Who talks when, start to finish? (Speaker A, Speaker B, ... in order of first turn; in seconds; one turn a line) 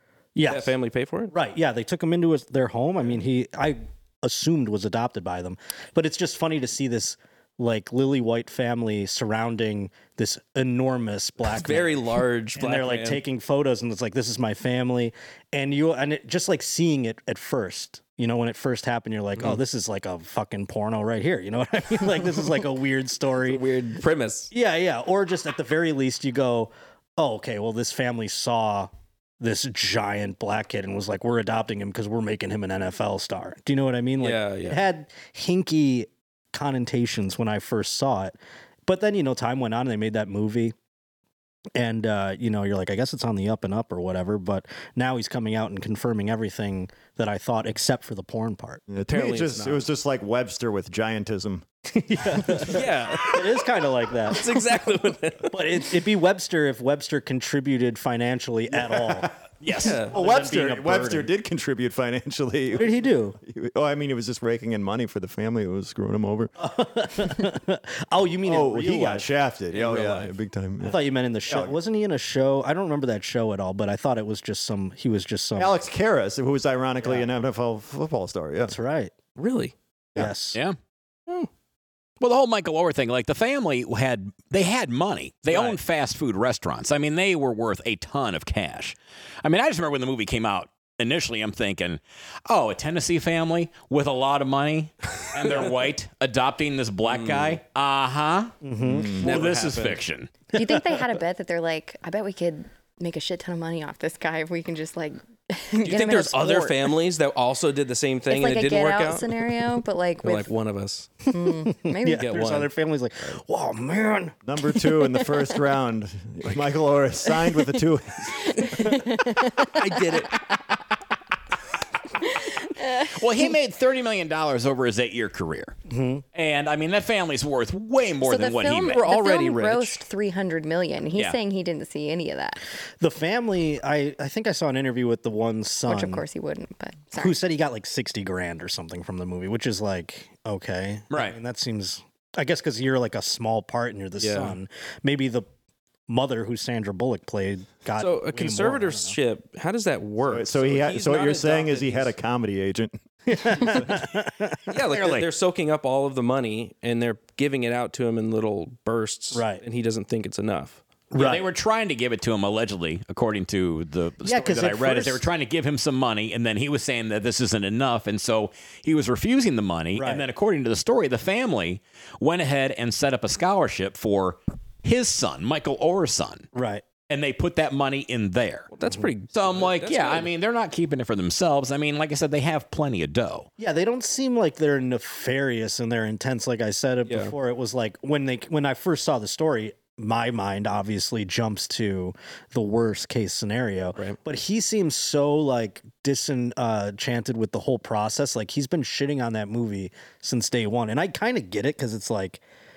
Speaker A: 0.3-0.8
Speaker B: 0.5-1.3
Speaker A: 1.3-12.0
Speaker B: 11.5-13.2
Speaker A: 12.6-23.6
Speaker B: 23.4-24.5
Speaker A: 24.5-40.8
Speaker B: 34.2-34.8
Speaker A: 41.8-48.8
Speaker C: 48.9-51.6
Speaker B: 49.0-49.9
Speaker A: 51.9-54.9
Speaker B: 52.5-53.5
Speaker B: 54.3-55.5
Speaker A: 55.4-59.3
Speaker D: 59.6-60.0
Speaker B: 59.7-60.2
Speaker A: 60.0-61.3
Speaker C: 60.1-66.5
Speaker A: 62.7-63.4
Speaker A: 66.6-69.3
Speaker C: 68.5-71.7
Speaker B: 69.8-70.2
Speaker A: 70.8-75.8
Speaker C: 75.6-78.8
Speaker A: 77.0-77.3
Speaker A: 78.7-79.1
Speaker B: 79.4-79.8
Speaker A: 80.2-80.6
Speaker D: 80.5-80.8
Speaker D: 82.2-98.5
Speaker B: 97.0-97.6
Speaker A: 98.6-99.2
Speaker C: 98.9-99.3
Speaker D: 99.2-100.3
Speaker B: 99.2-100.0
Speaker E: 100.5-107.0
Speaker A: 100.6-100.8
Speaker B: 105.8-109.5
Speaker E: 108.3-110.5
Speaker B: 110.2-111.1
Speaker E: 111.3-112.3
Speaker A: 111.4-114.4
Speaker B: 112.1-112.7
Speaker C: 114.5-118.9
Speaker E: 118.5-120.8
Speaker B: 119.8-120.4
Speaker E: 122.2-123.2
Speaker D: 123.0-125.8
Speaker A: 125.9-126.2
Speaker D: 126.3-129.1
Speaker E: 128.2-132.6
Speaker B: 128.9-130.0
Speaker A: 133.0-136.2
Speaker E: 135.9-137.4
Speaker A: 137.2-145.5
Speaker D: 141.1-141.4
Speaker B: 144.2-144.6
Speaker A: 146.1-149.2
Speaker B: 148.0-152.1
Speaker C: 150.2-153.0
Speaker A: 153.3-154.6
Speaker B: 154.7-160.8
Speaker D: 154.9-155.2
Speaker A: 159.3-159.6
Speaker A: 161.1-161.4
Speaker D: 161.2-176.5
Speaker A: 164.2-165.2
Speaker A: 169.9-170.2
Speaker A: 176.5-176.8
Speaker D: 177.1-178.7
Speaker B: 178.7-180.3
Speaker D: 179.3-183.5
Speaker A: 183.6-202.4
Speaker B: 187.1-187.3